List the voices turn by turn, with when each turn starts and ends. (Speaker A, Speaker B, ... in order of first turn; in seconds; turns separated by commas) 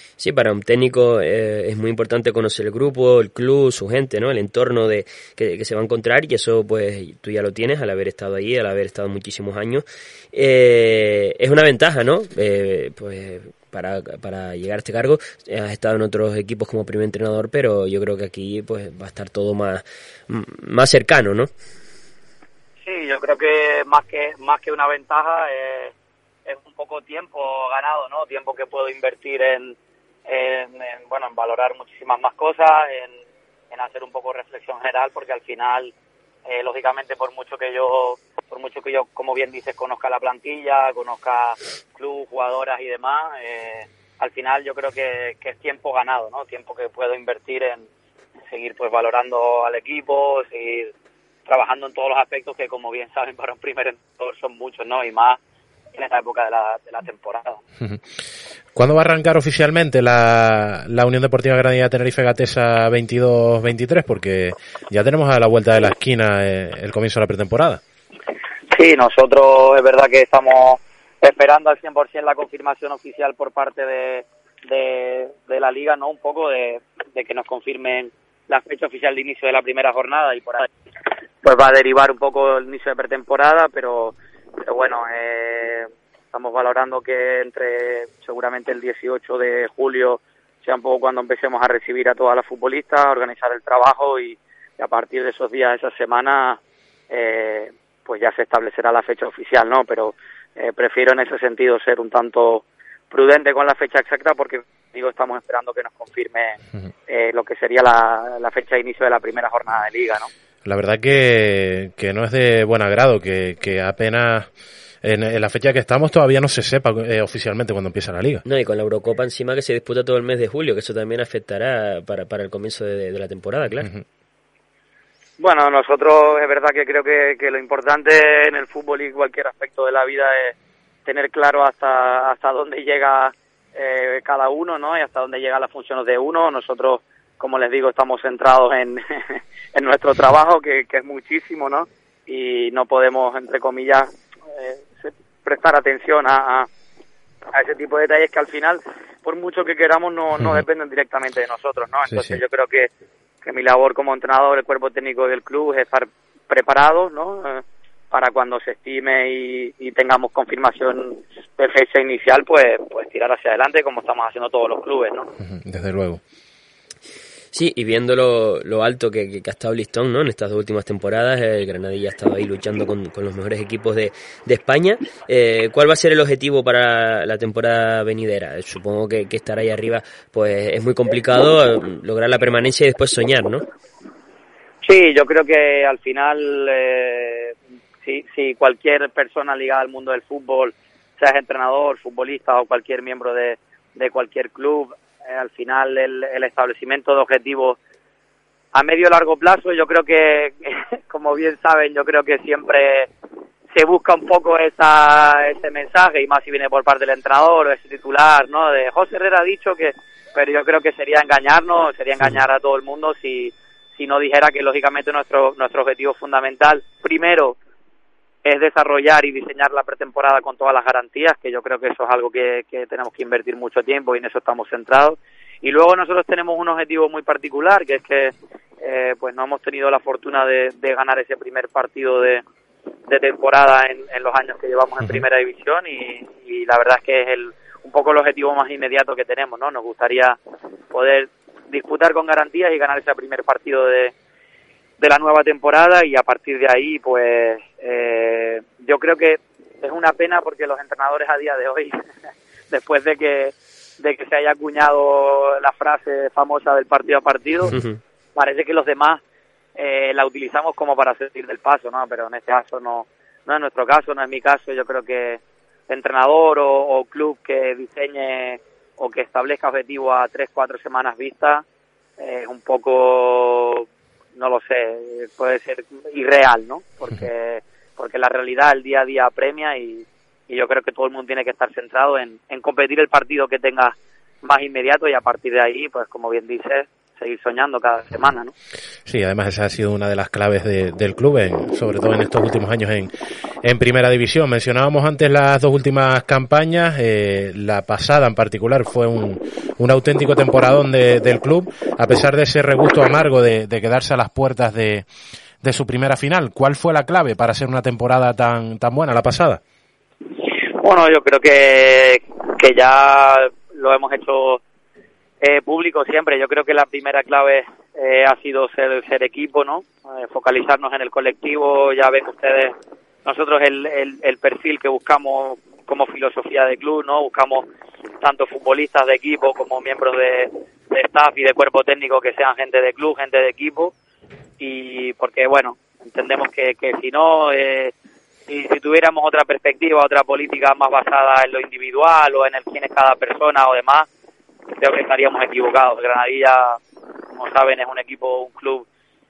Speaker A: 0.2-21.5, Speaker B: 22.8-25.9, Speaker B: 26.4-29.8, Speaker B: 30.3-35.9, Speaker B: 36.5-47.9, Speaker B: 48.5-50.9, Speaker B: 51.5-55.4, Speaker B: 55.9-57.6, Speaker C: 58.7-67.8, Speaker B: 68.7-80.7, Speaker B: 81.4-96.6, Speaker B: 97.1-110.3, Speaker C: 110.6-114.5, Speaker C: 115.0-118.4, Speaker A: 118.4-123.9, Speaker B: 125.4-146.7, Speaker B: 147.5-152.9, Speaker C: 152.1-152.4, Speaker B: 153.4-165.3, Speaker C: 165.4-166.2, Speaker A: 167.5-183.6, Speaker B: 184.8-197.8, Speaker B: 198.7-203.1, Speaker B: 203.7-217.6, Speaker B: 218.4-232.4, Speaker B: 233.1-240.4, Speaker B: 240.9-244.1, Speaker B: 245.0-251.9, Speaker B: 252.7-257.7, Speaker A: 257.7-258.0, Speaker B: 258.4-259.2, Speaker B: 259.8-271.6, Speaker B: 272.2-288.5, Speaker C: 289.1-293.1, Speaker C: 293.6-305.1, Speaker C: 305.6-309.6, Speaker B: 310.4-314.6, Speaker B: 315.4-327.6, Speaker B: 328.2-333.9, Speaker B: 334.6-337.9, Speaker B: 338.5-344.1, Speaker B: 344.8-346.8, Speaker B: 347.3-348.8